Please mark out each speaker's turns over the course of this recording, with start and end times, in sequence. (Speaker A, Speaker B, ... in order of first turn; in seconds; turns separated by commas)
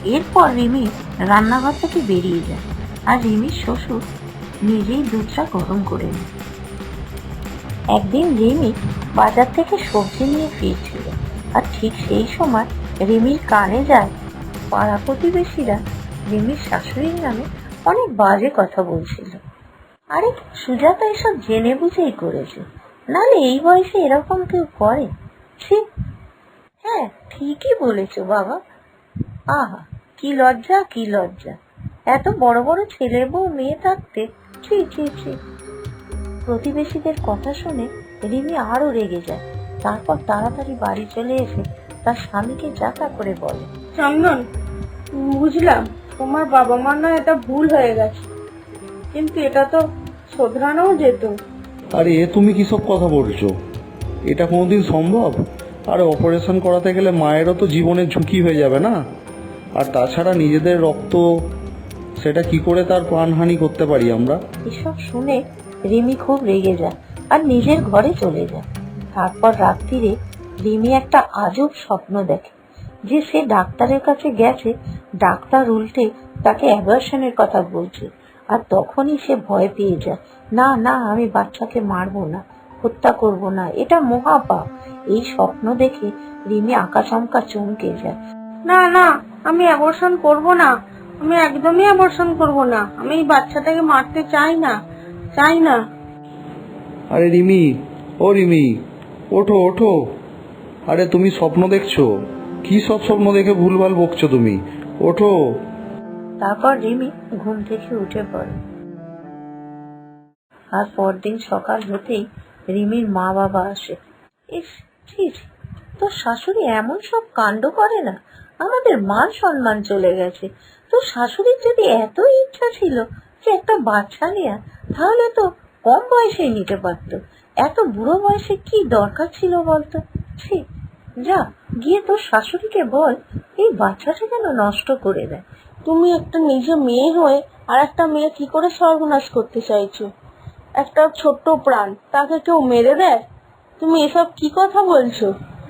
Speaker A: 0.1-4.0, Speaker A: 4.6-6.3, Speaker A: 7.9-14.1, Speaker A: 14.7-19.4, Speaker A: 20.1-25.1, Speaker A: 26.8-28.6, Speaker A: 29.5-31.6, Speaker A: 32.1-35.4, Speaker A: 36.5-43.7, Speaker B: 44.0-44.4, Speaker B: 45.2-48.3, Speaker B: 49.1-51.3, Speaker C: 52.0-53.5, Speaker C: 54.3-55.4, Speaker C: 55.9-59.0, Speaker C: 59.8-61.2, Speaker C: 62.2-64.4, Speaker A: 64.7-65.4, Speaker A: 65.9-70.1, Speaker A: 70.6-72.5, Speaker A: 73.1-74.7, Speaker A: 75.2-88.2, Speaker B: 88.7-94.7, Speaker B: 95.3-95.8, Speaker C: 97.1-97.7, Speaker C: 98.2-98.8, Speaker C: 99.3-99.9, Speaker C: 100.9-102.1, Speaker C: 102.6-105.4, Speaker A: 106.4-108.5, Speaker A: 110.7-114.0, Speaker A: 114.5-130.6, Speaker A: 131.2-135.4, Speaker B: 135.9-140.1, Speaker B: 140.8-143.2, Speaker B: 143.8-145.3